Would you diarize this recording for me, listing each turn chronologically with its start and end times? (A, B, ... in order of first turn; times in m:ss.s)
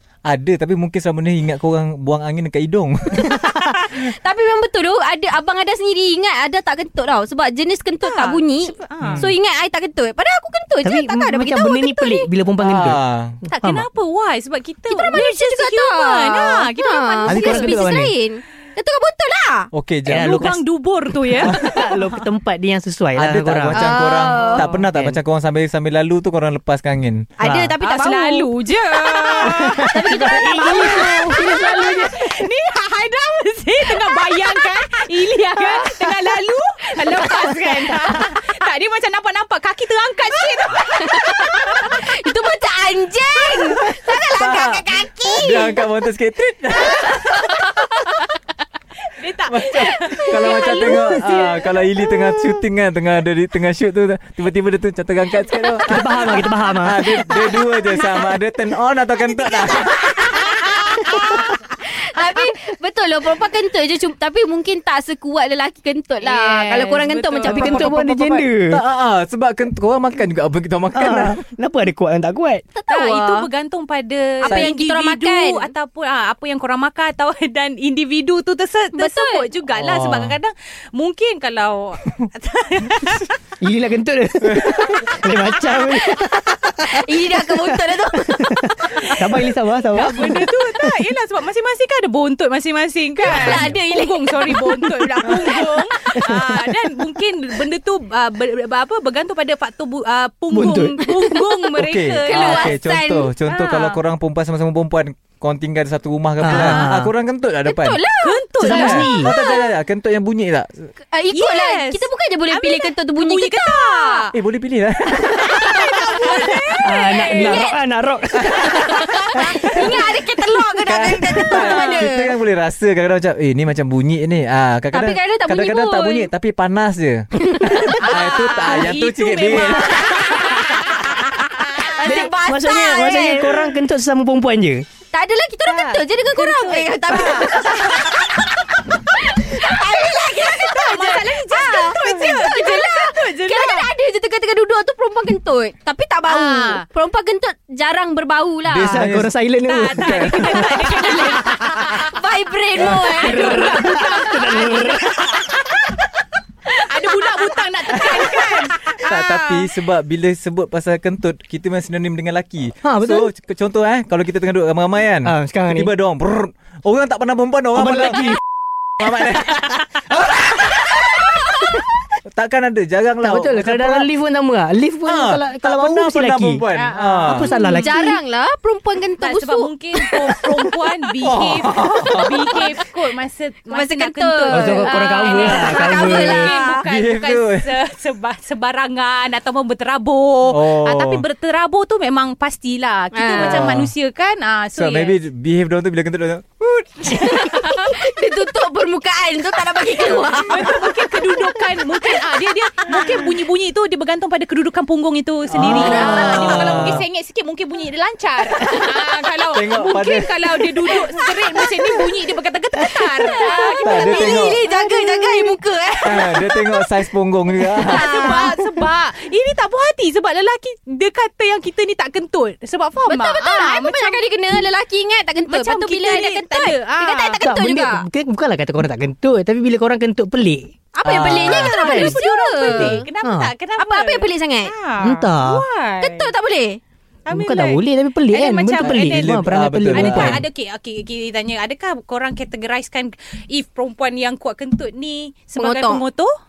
0:00.2-0:03.4 A
0:03.1-0:12.3 B
0:08.0-0:09.3 C
0:09.0-0:09.3 A
0:10.8-0:13.9 D
0:12.6-0:13.4 A
0:13.5-0:17.9 C
0:14.9-0:19.7 B
0:17.3-0:18.1 D
0:19.7-0:20.5 A
0:20.1-0:20.6 D
0:20.1-0:22.2 C
0:21.5-0:23.9 D
0:23.2-0:27.3 A
0:23.7-0:24.7 B
0:24.3-0:24.8 C
0:24.8-0:25.2 D
0:27.4-0:31.7 B
0:27.4-0:27.8 D
0:27.8-0:41.9 C
0:29.4-0:32.3 D
0:34.0-0:34.7 B
0:35.6-0:36.4 B
0:37.0-0:38.3 B
0:40.9-0:45.9 B
0:44.4-0:47.4 A
0:46.9-0:48.2 B
0:47.0-0:48.2 C
0:49.2-0:51.8 C
0:49.5-1:00.4 A
0:49.9-0:52.6 B
0:55.8-0:57.3 D
0:56.2-0:56.8 C
0:59.2-1:08.5 B
1:06.2-1:07.9 C
1:07.5-1:08.8 D
1:08.7-1:11.4 A
1:10.9-1:12.6 D
1:12.8-1:13.5 B
1:12.9-1:23.4 C
1:14.4-1:15.7 B
1:18.9-1:19.5 B
1:19.7-1:20.4 A
1:23.6-1:30.8 D
1:24.4-1:24.7 A
1:24.8-1:26.3 C
1:26.0-1:29.1 B
1:28.9-1:42.8 C
1:33.2-1:35.9 B
1:36.2-1:36.8 D
1:40.5-1:41.0 D
1:41.8-1:48.0 A
1:42.2-1:43.3 B
1:43.5-1:44.0 C
1:46.4-1:47.1 D
1:46.5-1:46.9 C
1:47.6-1:49.7 B
1:48.2-1:49.0 C
1:48.6-1:49.3 D
1:48.7-1:50.9 A
1:51.1-1:54.3 B
1:51.3-1:54.3 C
1:54.3-1:56.2 A
1:55.4-1:57.8 B
1:55.6-1:57.7 C
1:56.8-1:59.1 D
1:58.4-2:02.4 B
1:59.4-2:00.1 A
2:00.8-2:10.2 A
2:01.6-2:02.0 C
2:04.9-2:06.3 B
2:07.4-2:08.0 B
2:08.0-2:12.1 C
2:10.0-2:10.6 B
2:11.8-2:13.7 B
2:12.0-2:14.9 D
2:15.1-2:29.1 B
2:15.7-2:18.3 C
2:20.6-2:23.9 C
2:26.2-2:26.8 C
2:28.6-2:29.3 A
2:28.9-2:30.4 D
2:29.6-2:32.1 C
2:30.0-2:30.8 A
2:30.8-2:34.5 B
2:32.8-2:35.5 C
2:32.8-2:33.1 A
2:33.2-2:35.4 D
2:36.7-2:39.7 C
2:39.0-2:48.4 A
2:42.8-2:43.3 D
2:45.2-2:45.9 D
2:47.8-2:48.4 D
2:49.0-2:50.8 A
2:52.2-2:54.1 A
2:53.2-2:56.6 D
2:55.0-2:57.5 A
2:56.7-2:57.9 C
2:57.3-2:58.2 D
2:57.5-3:00.6 B
2:59.2-3:15.2 C
3:01.2-3:02.4 A
3:02.0-3:02.8 B
3:03.7-3:06.9 B
3:04.5-3:06.5 D
3:06.8-3:07.7 A
3:10.5-3:11.2 A
3:13.1-3:13.7 B
3:13.4-3:13.9 A
3:14.8-3:17.2 A
3:17.0-3:21.6 B
3:20.0-3:35.6 C
3:25.5-3:27.0 A
3:25.6-3:26.8 D
3:25.8-3:26.5 B
3:28.5-3:29.0 B
3:29.5-3:30.4 A
3:31.3-3:32.0 B
3:33.2-3:36.9 B
3:33.8-3:34.6 A
3:36.0-3:38.5 A
3:37.7-3:44.3 C
3:37.9-3:38.7 B
3:43.1-3:48.0 B
3:45.5-3:47.4 C
3:47.4-3:50.7 D
3:50.9-3:53.1 B
3:51.0-3:51.7 A
3:51.4-3:53.5 D
3:51.7-3:56.3 C
3:53.8-3:54.7 B
3:55.0-3:55.6 D
3:56.0-3:56.8 B
3:57.3-4:06.3 C
3:57.3-4:00.4 D
3:58.8-4:00.4 A
4:05.6-4:06.0 B